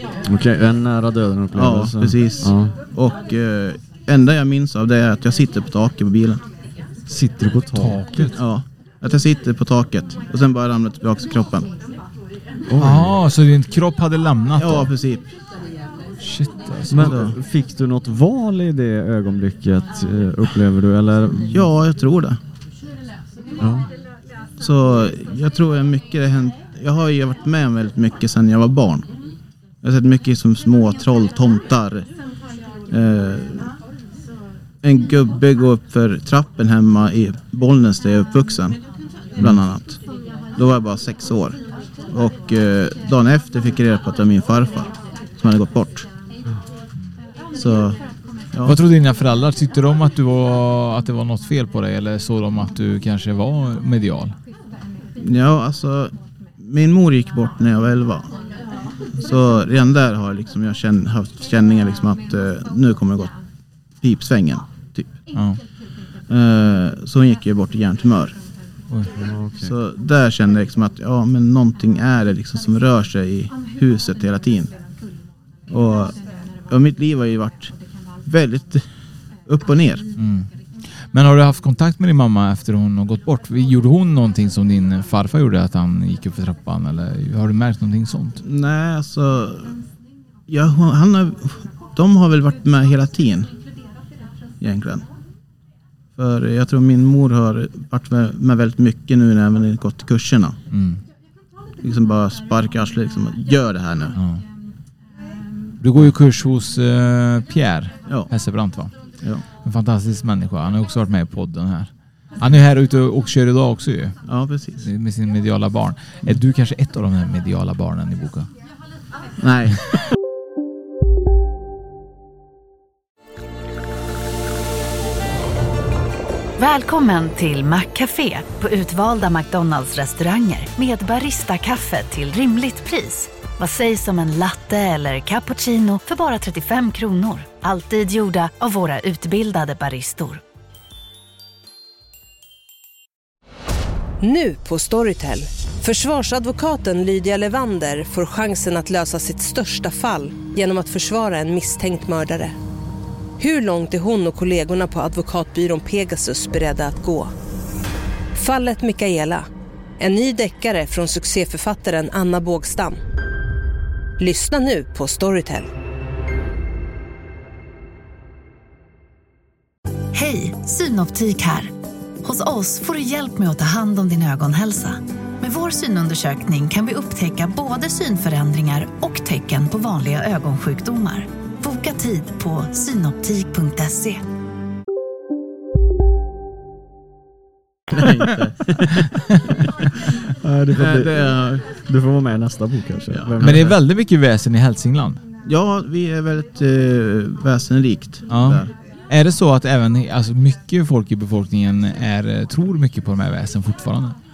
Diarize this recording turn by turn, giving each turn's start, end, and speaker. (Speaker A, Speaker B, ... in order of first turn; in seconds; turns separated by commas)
Speaker A: 0.3-2.8, Speaker B: 1.5-6.4, Speaker A: 7.1-8.3, Speaker C: 7.7-8.4, Speaker B: 8.3-11.7, Speaker A: 12.7-13.2, Speaker C: 12.8-14.9, Speaker B: 14.6-15.3, Speaker C: 16.2-17.1, Speaker A: 16.9-21.7, Speaker B: 17.0-17.4, Speaker B: 21.5-22.4, Speaker A: 23.6-23.9, Speaker B: 24.6-29.1, Speaker B: 29.8-32.0, Speaker B: 32.9-33.7, Speaker B: 34.8-38.8, Speaker B: 39.4-40.0, Speaker B: 40.5-41.6, Speaker B: 42.1-46.1, Speaker B: 47.5-48.0, Speaker B: 48.5-48.8, Speaker C: 48.6-54.3, Speaker B: 55.2-58.3, Speaker B: 59.2-63.3, Speaker B: 64.0-65.1, Speaker C: 65.3-65.6, Speaker B: 66.3-68.3, Speaker A: 69.2-69.7, Speaker B: 69.6-74.7, Speaker B: 75.7-76.1, Speaker B: 76.7-77.7, Speaker B: 78.3-78.8, Speaker B: 79.5-80.0, Speaker C: 80.2-80.5, Speaker C: 81.1-88.4, Speaker B: 88.4-89.7, Speaker B: 90.5-93.5, Speaker B: 94.6-95.0, Speaker B: 96.2-100.5, Speaker C: 100.7-101.0, Speaker B: 101.8-104.2, Speaker C: 104.2-104.4, Speaker C: 105.8-108.9, Speaker C: 109.6-114.2, Speaker B: 114.3-114.8, Speaker C: 114.8-118.5, Speaker B: 119.4-119.8, Speaker D: 126.6-140.4, Speaker E: 144.2-152.5, Speaker E: 153.4-157.3, Speaker E: 158.3-159.4, Speaker E: 160.0-163.0, Speaker E: 164.2-165.7, Speaker D: 170.1-171.7, Speaker D: 172.2-184.2, Speaker B: 187.9-189.1, Speaker C: 189.3-189.6, Speaker A: 190.4-193.8, Speaker B: 190.7-191.7, Speaker B: 193.1-193.7, Speaker C: 193.4-195.2, Speaker B: 195.4-198.7, Speaker C: 198.3-204.2